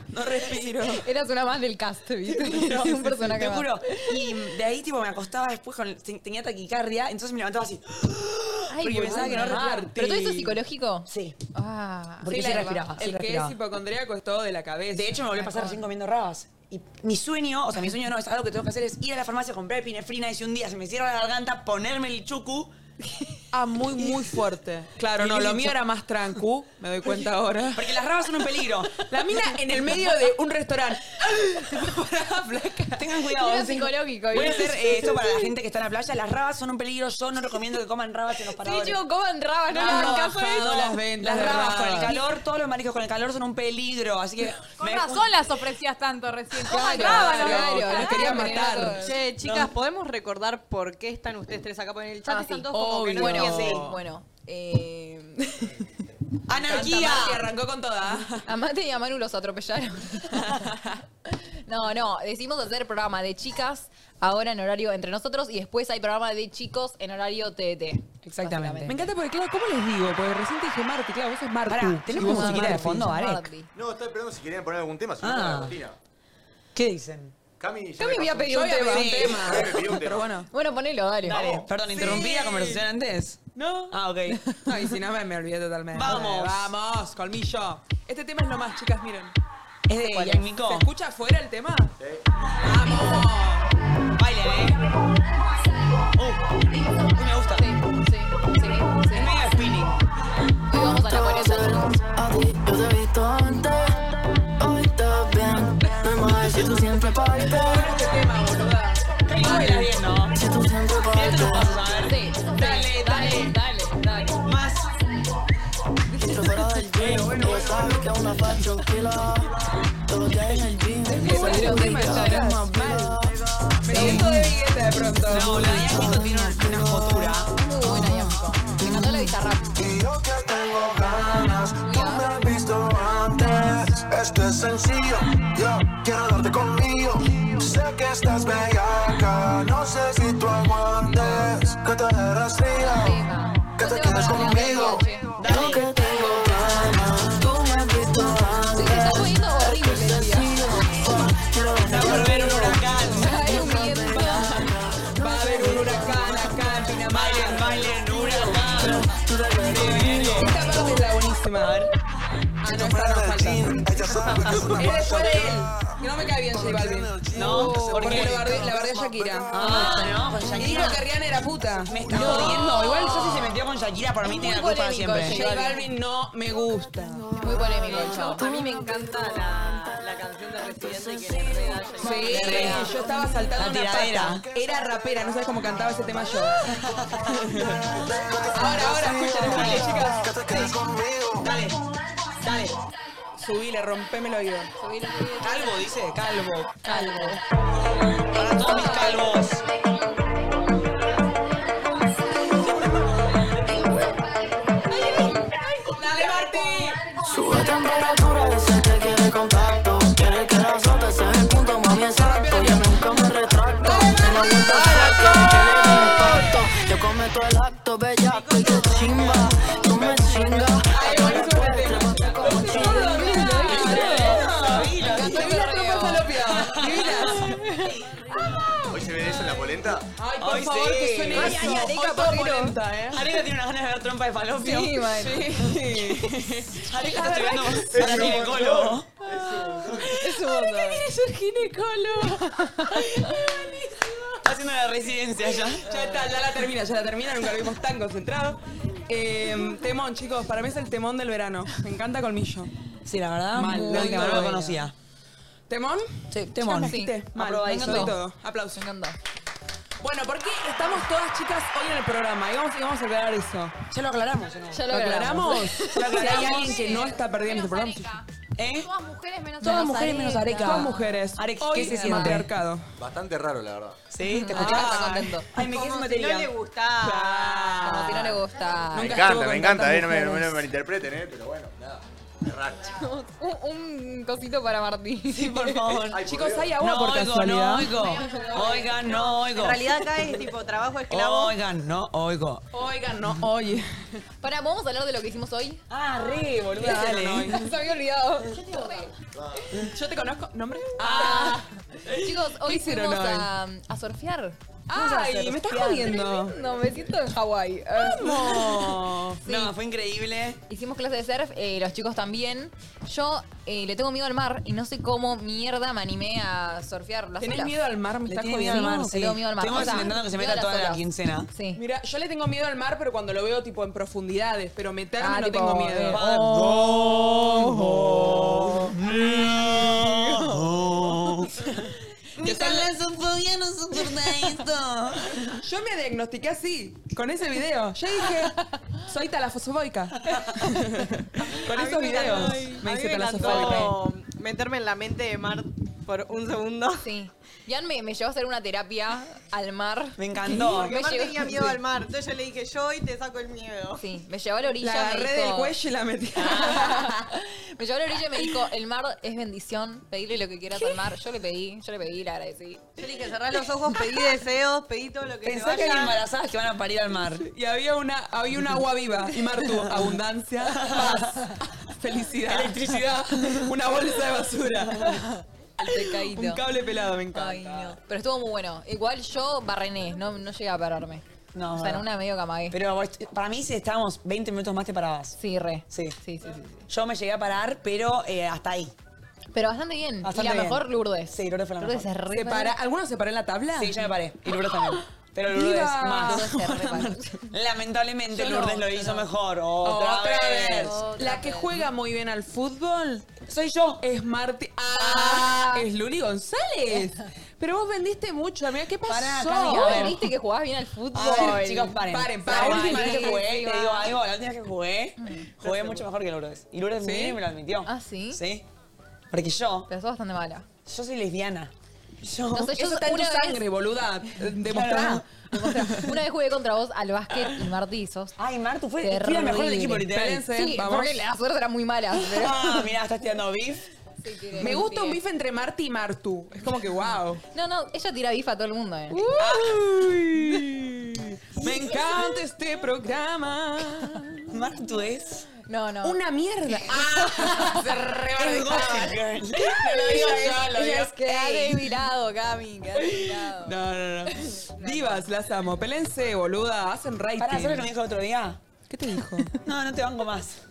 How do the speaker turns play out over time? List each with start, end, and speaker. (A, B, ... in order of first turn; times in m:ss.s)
0:00.1-0:01.0 A
0:00.7-0:04.4 B
0:02.2-0:09.9 C
0:08.7-0:13.0 B
0:08.9-0:10.6 A
0:11.1-0:11.4 C
0:12.2-0:13.6 C
0:12.3-0:15.3 A
0:14.9-0:22.7 C
0:15.3-0:15.8 B
0:23.5-0:28.0 A
0:24.0-0:24.2 C
0:25.2-0:25.8 C
0:27.8-0:29.0 C
0:29.1-0:33.0 A
0:33.0-0:39.0 C
0:33.4-0:35.5 B
0:38.6-0:40.7 B
0:39.7-0:45.4 C
0:39.7-0:42.2 A
0:44.8-0:47.3 D
0:46.6-0:49.2 B
0:46.7-0:48.6 C
0:46.8-0:49.0 A
0:49.0-0:54.0 E
0:49.4-0:49.7 C
0:52.2-0:55.7 B
0:52.7-0:53.7 A
0:53.2-0:53.9 C
0:56.5-0:57.5 C
0:56.5-0:58.5 A
0:58.4-1:09.1 B
1:08.2-1:09.0 C
1:08.9-1:13.1 A
1:11.7-1:13.5 C
1:12.1-1:13.7 B
1:13.7-1:16.0 F
1:15.2-1:15.8 C
1:16.7-1:17.4 C
1:17.6-1:18.6 F
1:18.0-1:19.1 B
1:18.4-1:20.5 A
1:18.9-1:19.6 C
1:19.3-1:20.3 F
1:20.5-1:21.7 B
1:21.2-1:24.4 C
1:21.9-1:22.8 A
1:23.6-1:24.0 A
1:24.6-1:29.4 A
1:25.9-1:26.7 C
1:29.9-1:30.9 C
1:30.1-1:31.9 A
1:32.6-1:33.7 A
1:34.2-1:34.8 C
1:36.1-1:37.7 C
1:37.6-1:39.4 B
1:39.1-1:40.1 C
1:40.7-1:41.9 B
1:40.8-1:48.1 G
1:47.3-1:49.9 A
1:49.3-1:50.4 C
1:50.3-1:52.1 G
1:51.1-1:53.6 C
1:52.0-1:54.4 B
1:54.4-1:54.9 C
1:56.1-2:04.5 G
1:57.0-1:58.1 C
2:01.0-2:03.2 A
2:01.2-2:02.5 B
2:03.8-2:06.0 A
2:03.9-2:04.3 C
2:05.2-2:07.5 C
2:05.8-2:07.2 G
2:06.1-2:08.8 H
2:07.6-2:09.7 B
2:09.7-2:23.2 H
2:11.8-2:12.5 B
2:22.7-2:25.2 B
2:23.8-2:25.1 H
2:25.4-2:26.0 C
2:25.4-2:36.9 G
2:28.7-2:30.6 B
2:31.8-2:34.3 C
2:33.1-2:34.6 B
2:35.2-2:38.7 A
2:37.1-2:39.1 C
2:38.2-2:40.7 G
2:39.6-2:40.7 C
2:40.2-2:41.9 A
2:42.6-2:53.5 A
2:42.7-2:46.0 H
2:46.5-2:50.1 H
2:47.3-2:48.6 C
2:49.5-2:51.1 C
2:50.7-2:51.0 B
2:51.9-2:55.5 C
2:52.1-2:53.5 B
2:54.2-2:55.8 B
2:55.2-2:57.2 A
2:57.4-2:59.2 B
2:57.8-3:02.7 E
3:02.0-3:06.7 A
3:02.0-3:03.1 B
3:02.2-3:03.0 C
3:03.6-3:04.5 C
3:04.9-3:11.5 H
3:06.7-3:07.4 C
3:07.3-3:07.8 A
3:08.5-3:10.7 A
3:09.4-3:10.0 C
3:11.4-3:11.8 C
3:12.4-3:12.8 C
3:13.4-3:14.7 A
3:14.8-3:15.8 B
3:15.4-3:17.4 C
3:16.2-3:17.0 A
3:16.8-3:17.4 B
3:18.3-3:19.6 C
3:18.4-3:19.2 B
3:22.6-3:23.9 C
3:24.9-3:27.0 A
3:26.1-3:26.7 C
3:27.2-3:43.4 G
3:31.9-3:33.0 A
3:33.8-3:36.5 A
3:40.9-3:47.6 A
3:41.1-3:41.4 C
3:42.3-3:46.3 B
3:42.9-3:45.6 C
3:46.4-3:47.4 C
3:47.3-3:49.7 B
3:48.9-3:50.1 F
3:50.2-3:53.3 A
3:50.4-3:52.3 C
3:51.3-3:52.8 B
3:53.1-3:55.1 C
3:54.6-3:55.5 B
3:55.1-3:58.6 A
3:56.8-3:59.1 C
3:58.0-3:59.0 F
3:59.2-4:01.1 B
3:59.8-4:00.4 C
4:00.8-4:02.5 A
4:02.2-4:03.3 B
4:03.3-4:04.3 A
4:04.4-4:05.9 C
4:05.8-4:12.7 A
4:13.0-4:14.9 C
4:13.5-4:14.9 A
4:13.6-4:14.4 B
4:15.7-4:18.8 A
4:16.3-4:18.2 C
4:16.8-4:18.2 B
4:18.8-4:19.2 B
4:20.0-4:23.8 A
4:23.9-4:24.9 C
4:24.7-4:27.2 B
4:24.9-4:28.2 A
4:25.9-4:27.1 C
4:27.3-4:28.2 D
4:28.6-4:28.9 C
4:28.8-4:29.6 D
4:29.6-4:31.1 B
4:29.6-4:32.5 C
4:29.6-4:32.9 A
4:31.8-4:32.4 B
4:33.0-4:34.0 F
4:34.1-4:36.5 C
4:34.3-4:35.5 B
4:34.6-4:35.2 A
4:35.6-4:38.0 E
4:37.0-4:40.7 A
4:37.8-4:39.3 B
4:39.0-4:43.0 F
4:42.9-4:46.0 B
4:45.3-4:46.2 C
4:46.1-4:46.8 F
4:46.2-4:48.0 A
4:46.8-4:50.4 C
4:48.0-4:49.1 B
4:49.4-4:51.6 E
4:51.1-4:52.6 C
4:52.7-4:54.2 A
4:54.4-4:55.8 B
4:55.9-4:57.7 C
4:56.8-4:57.7 A
4:56.8-4:59.1 B
4:59.3-4:59.6 F
4:59.8-5:01.6 A
5:01.0-5:02.3 C
5:01.1-5:04.6 B
5:02.6-5:03.5 A
5:04.9-5:06.6 A
5:04.9-5:06.2 C
5:05.4-5:08.4 B
5:08.0-5:09.4 A
5:08.1-5:10.6 C
5:09.4-5:09.7 B
5:10.7-5:17.7 B
5:17.4-5:19.1 A
5:18.3-5:21.5 C
5:18.7-5:21.8 B
5:19.7-5:20.0 A
5:21.8-5:27.4 A
5:25.2-5:26.7 B
5:26.1-5:35.6 C
5:27.4-5:28.0 B
5:29.5-5:30.7 A
5:32.4-5:32.9 A
5:35.6-5:44.0 A
5:41.7-5:42.8 C
5:41.8-5:47.1 E
5:42.5-5:42.8 B
5:43.4-5:44.0 C
5:47.0-5:51.8 B
5:50.2-5:51.0 C
5:50.7-5:54.1 E
5:54.0-5:55.7 B
5:54.8-5:57.2 A
5:56.4-6:02.8 B
6:03.0-6:06.2 E
6:05.4-6:07.5 C
6:07.3-6:15.2 A
6:09.7-6:11.4 C
6:12.5-6:14.0 C
6:14.7-6:15.3 C
6:15.8-6:16.6 B
6:15.9-6:18.0 A
6:16.0-6:16.7 C
6:17.3-6:22.8 B
6:21.5-6:22.1 C
6:22.7-6:25.4 C
6:25.4-6:26.9 B
6:25.9-6:26.2 C
6:26.9-6:28.9 C
6:29.5-6:32.8 B
6:30.2-6:32.1 C
6:32.3-6:34.1 A
6:33.8-6:36.9 C
6:35.5-6:37.2 A
6:36.2-6:37.5 B
6:37.5-6:41.0 C
6:38.4-6:39.2 A
6:38.4-6:38.8 B
6:39.8-6:43.4 A
6:40.8-6:41.8 B
6:43.5-6:44.0 C
6:44.0-6:50.2 A
6:45.0-6:45.5 C
6:45.0-6:45.8 B
6:49.1-6:50.2 C
6:49.6-6:54.1 B
6:51.1-6:58.7 C
6:51.3-6:53.6 A
6:55.2-6:55.5 B
6:57.0-6:57.4 A
6:57.9-6:58.4 B
6:59.3-6:59.9 C
6:59.9-7:00.7 B
7:00.9-7:03.2 C
7:02.5-7:03.6 B
7:02.7-7:05.3 A
7:04.5-7:05.2 C
7:05.5-7:08.4 B
7:08.4-7:10.5 C
7:09.0-7:12.9 B
7:10.0-7:11.2 A
7:12.1-7:13.9 C
7:14.2-7:15.2 B
7:14.6-7:17.4 A
7:17.5-7:19.7 B
7:19.1-7:24.3 A
7:21.6-7:22.4 B
7:24.5-7:25.5 C
7:25.6-7:26.2 B
7:26.0-7:29.2 A
7:26.8-7:27.9 B
7:28.3-7:31.2 C
7:29.8-7:33.8 B
7:29.8-7:31.9 A
7:33.6-7:37.9 A
7:33.9-7:34.3 C
7:34.3-7:35.2 B
7:37.4-7:38.6 C
7:38.9-7:39.5 A
7:39.4-7:40.6 C